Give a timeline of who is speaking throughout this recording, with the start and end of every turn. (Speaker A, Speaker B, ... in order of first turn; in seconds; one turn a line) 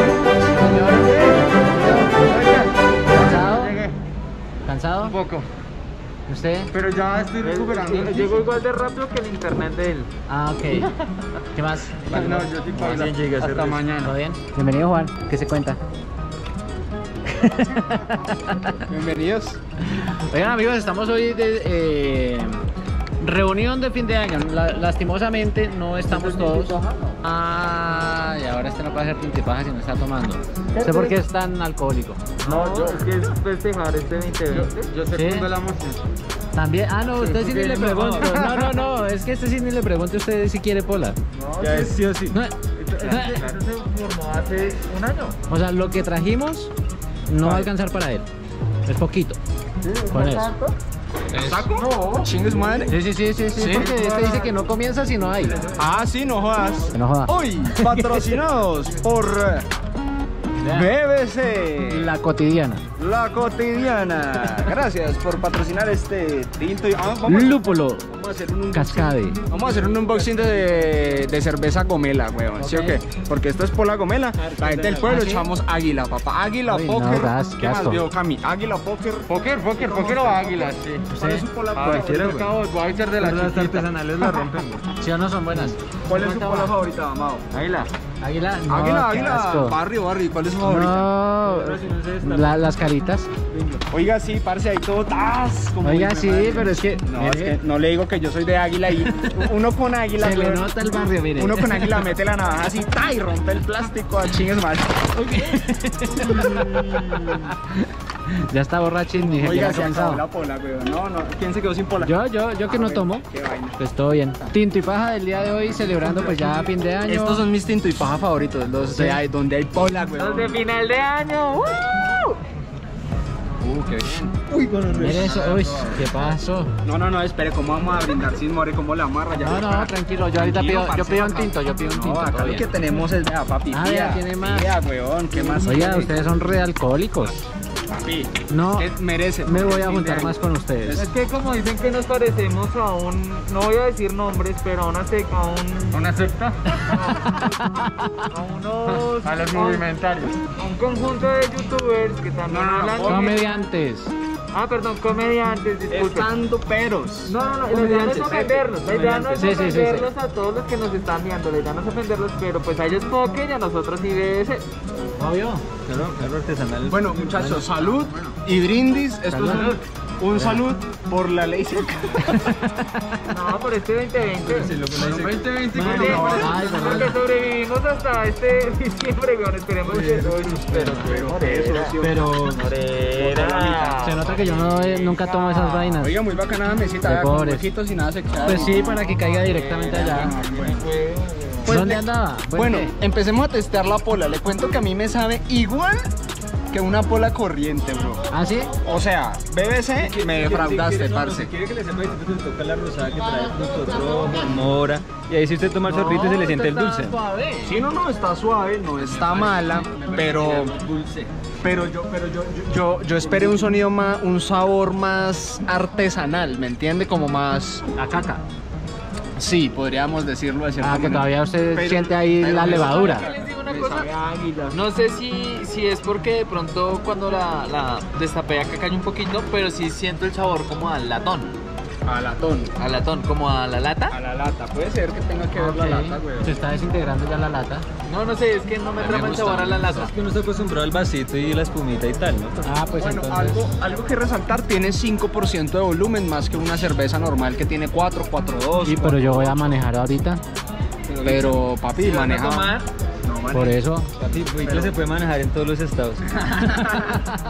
Speaker A: 0.5-2.2
Speaker B: 2.2-4.0
Speaker A: 3.1-3.8
Speaker A: 4.7-5.2
Speaker B: 5.0-5.5
Speaker A: 6.3-6.7
Speaker B: 6.7-8.5
Speaker C: 7.4-10.1
Speaker A: 10.3-10.9
Speaker A: 11.6-12.1
Speaker B: 12.1-14.1
Speaker D: 12.1-13.8
Speaker A: 14.0-15.8
Speaker A: 17.3-18.8
Speaker E: 18.9-19.6
Speaker A: 19.9-22.6
Speaker A: 23.2-32.3
Speaker B: 26.1-27.1
Speaker B: 30.8-31.1
Speaker B: 32.4-33.1
Speaker C: 32.4-34.9
Speaker B: 34.5-36.0
Speaker A: 35.1-35.5
Speaker A: 36.5-41.2
Speaker D: 37.3-38.7
Speaker B: 37.8-38.3
Speaker B: 41.4-41.9
Speaker C: 41.4-41.9
Speaker D: 41.6-42.4
Speaker A: 42.3-43.4
Speaker B: 42.8-43.6
Speaker C: 43.0-45.4
Speaker A: 45.5-46.7
Speaker A: 47.3-48.3
Speaker A: 48.9-49.4
Speaker B: 49.8-50.7
Speaker A: 50.1-50.5
Speaker E: 51.3-53.0
Speaker B: 51.3-52.9
Speaker A: 52.9-55.6
Speaker B: 53.5-54.6
Speaker B: 55.4-55.8
Speaker E: 55.8-59.7
Speaker A: 56.9-58.2
Speaker A: 60.6-60.9
Speaker E: 60.6-62.1
Speaker A: 61.9-62.8
Speaker E: 63.0-82.5
Speaker A: 67.3-68.1
Speaker A: 68.7-69.4
Speaker B: 69.8-70.4
Speaker A: 72.6-73.0
Speaker B: 74.6-75.0
Speaker A: 75.0-75.5
Speaker A: 76.7-78.1
Speaker B: 79.3-81.1
Speaker C: 79.9-80.5
Speaker A: 81.1-81.5
Speaker B: 81.8-83.9
Speaker C: 81.8-83.7
Speaker D: 81.9-82.5
Speaker D: 83.2-84.8
Speaker A: 85.0-86.7
Speaker E: 86.1-87.5
Speaker C: 87.5-87.9
Speaker A: 88.2-89.8
Speaker E: 88.7-91.1
Speaker A: 90.6-93.3
Speaker D: 91.4-92.7
Speaker D: 93.5-93.8
Speaker E: 93.9-100.7
Speaker A: 95.8-97.6
Speaker A: 100.2-102.1
Speaker E: 101.4-105.2
Speaker A: 105.2-106.7
Speaker E: 106.1-107.5
Speaker A: 108.3-110.2
Speaker E: 109.2-113.8
Speaker A: 112.0-113.2
Speaker A: 113.8-117.4
Speaker E: 117.1-120.7
Speaker A: 118.9-119.2
Speaker C: 120.2-122.4
Speaker E: 123.6-124.3
Speaker D: 124.5-125.5
Speaker A: 124.9-126.7
Speaker B: 125.1-126.0
Speaker E: 126.8-136.4
Speaker A: 129.4-132.7
Speaker A: 133.7-134.8
Speaker A: 135.6-137.4
Speaker E: 137.9-141.0
Speaker A: 138.5-138.9
Speaker A: 139.4-141.1
Speaker C: 140.9-146.0
Speaker B: 145.9-146.7
Speaker C: 146.8-147.2
Speaker A: 147.3-148.2
Speaker C: 148.3-149.9
Speaker B: 149.2-150.4
Speaker C: 150.6-153.6
Speaker E: 152.5-153.4
Speaker A: 153.1-154.1
Speaker C: 154.5-156.3
Speaker E: 155.9-159.3
Speaker C: 157.3-164.6
Speaker A: 159.4-160.1
Speaker A: 165.2-165.7
Speaker D: 165.9-167.5
Speaker E: 166.9-172.5
Speaker A: 167.4-167.8
Speaker A: 169.3-169.7
Speaker C: 169.4-169.8
Speaker A: 170.3-170.6
Speaker A: 172.3-172.8
Speaker C: 173.3-174.7
Speaker D: 174.4-176.6
Speaker B: 174.9-177.2
Speaker C: 175.8-184.2
Speaker E: 175.8-176.4
Speaker A: 176.3-177.2
Speaker D: 179.8-181.1
Speaker E: 180.9-182.5
Speaker E: 183.2-184.7
Speaker A: 184.0-186.2
Speaker C: 185.0-186.0
Speaker E: 186.0-188.8
Speaker A: 187.0-187.7
Speaker A: 188.4-190.3
Speaker C: 188.7-191.6
Speaker B: 189.8-190.8
Speaker E: 190.3-190.7
Speaker E: 191.7-196.1
Speaker A: 191.7-192.9
Speaker E: 196.7-198.2
Speaker A: 198.3-198.7
Speaker E: 198.8-201.5
Speaker D: 200.1-207.2
Speaker C: 205.8-207.8
Speaker E: 207.6-210.7
Speaker B: 209.0-211.0
Speaker D: 210.8-211.3
Speaker E: 211.6-217.8
Speaker D: 213.2-213.6
Speaker A: 218.0-218.4
Speaker E: 219.4-224.8
Speaker A: 220.8-223.2
Speaker C: 222.6-224.1
Speaker C: 224.7-231.5
Speaker E: 232.1-232.7
Speaker C: 232.8-234.2
Speaker E: 234.1-236.6
Speaker A: 235.5-237.9
Speaker C: 238.1-240.1
Speaker B: 239.0-239.9
Speaker D: 239.9-242.7
Speaker A: 242.7-243.7
Speaker E: 243.0-249.6
Speaker A: 248.8-250.4
Speaker B: 251.1-251.4
Speaker E: 251.2-252.8
Speaker C: 252.0-252.9
Speaker B: 253.3-253.8
Speaker A: 253.5-254.1
Speaker D: 254.2-256.9
Speaker B: 254.6-254.9